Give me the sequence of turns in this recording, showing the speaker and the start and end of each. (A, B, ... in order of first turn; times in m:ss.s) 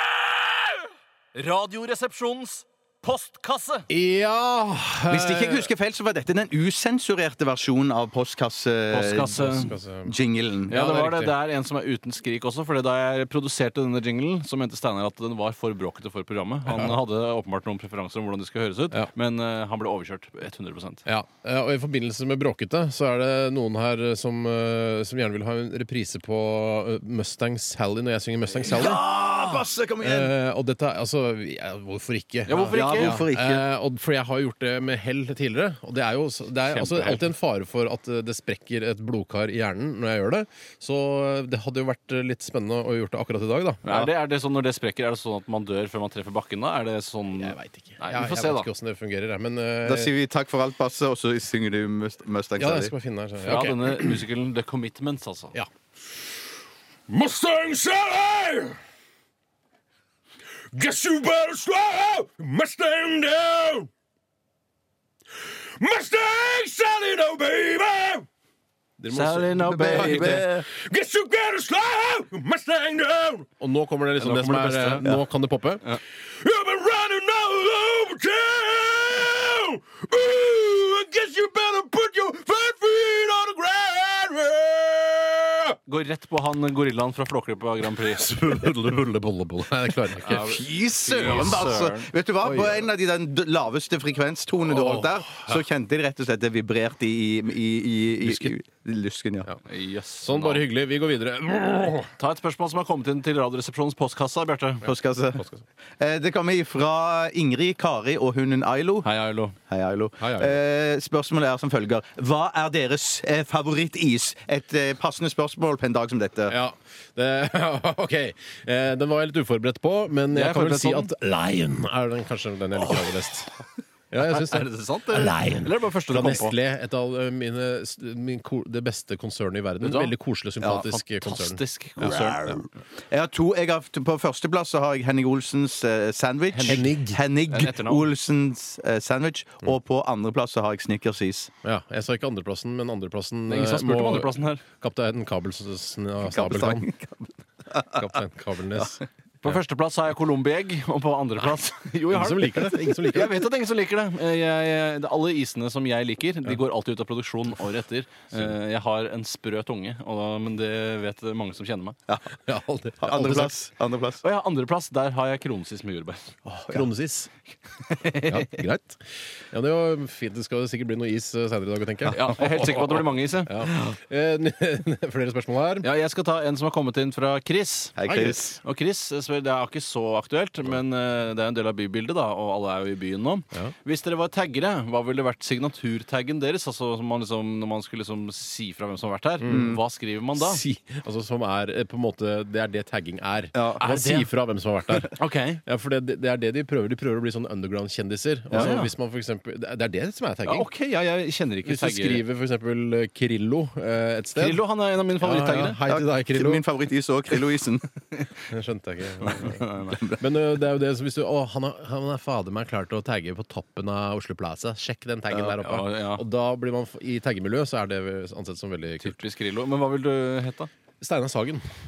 0:01.4-0:03.9 A
0:03.9-0:05.7 B
0:05.1-0:11.1 C
0:08.9-0:09.7 A
0:09.4-0:10.2 B
0:10.7-0:21.0 A
0:10.9-0:11.3 B
0:16.7-0:17.0 B
0:21.0-0:44.1 B
0:28.7-0:30.3 C
0:32.5-0:33.2 A
0:32.7-0:33.6 C
0:36.7-0:37.3 A
0:43.8-0:48.7 A
0:47.4-0:50.1 B
0:49.8-0:52.9 C
0:52.6-0:54.1 B
0:53.4-0:55.5 A
0:55.5-0:56.6 B
0:57.1-0:58.8 B
1:00.7-1:03.9 B
1:05.5-1:08.3 B
1:09.0-1:25.8 B
1:09.1-1:10.5 A
1:09.7-1:10.6 C
1:14.2-1:15.1 A
1:25.9-1:28.3 A
1:28.0-1:30.6 B
1:30.2-1:32.5 A
1:30.5-1:39.5 C
1:32.5-1:32.8 B
1:34.6-1:35.6 B
1:38.2-1:38.5 B
1:39.7-1:40.6 A
1:40.2-1:42.1 B
1:42.2-1:44.8 A
1:44.8-1:45.4 C
1:45.4-1:45.6 B
1:46.0-1:56.6 C
1:49.0-1:49.6 A
1:50.2-1:50.6 B
1:56.5-2:03.5 B
2:00.3-2:01.1 A
2:04.1-2:12.7 B
2:04.2-2:06.6 A
2:09.8-2:12.6 A
2:13.1-2:21.5 C
2:16.5-2:16.9 A
2:16.6-2:17.2 B
2:17.5-2:18.0 A
2:21.6-2:26.9 B
2:23.5-2:24.6 A
2:26.2-2:28.0 C
2:27.9-2:29.5 B
2:29.4-2:42.0 A
2:32.1-2:33.5 B
2:42.5-2:43.5 B
2:43.0-2:44.2 C
2:44.2-2:46.4 A
2:46.5-2:47.3 B
2:47.8-2:48.4 A
2:48.3-2:55.9 B
2:52.1-2:53.5 A
2:55.8-3:10.6 A
2:58.0-2:58.6 C
2:58.1-2:58.4 B
3:09.4-3:09.8 B
3:09.5-3:09.8 C
3:10.4-3:15.1 B
3:13.6-3:13.8 C
3:13.8-3:14.3 A
3:15.2-3:15.6 A
3:15.6-3:20.7 B
3:18.5-3:18.9 A
3:20.5-3:22.2 A
3:21.6-3:24.6 B
3:24.4-3:25.8 A
3:25.2-3:26.6 B
3:25.9-3:27.9 C
3:28.5-3:39.2 B
3:29.2-3:30.0 A
3:35.3-3:36.2 A
3:39.0-3:40.7 A
3:41.0-3:41.7 B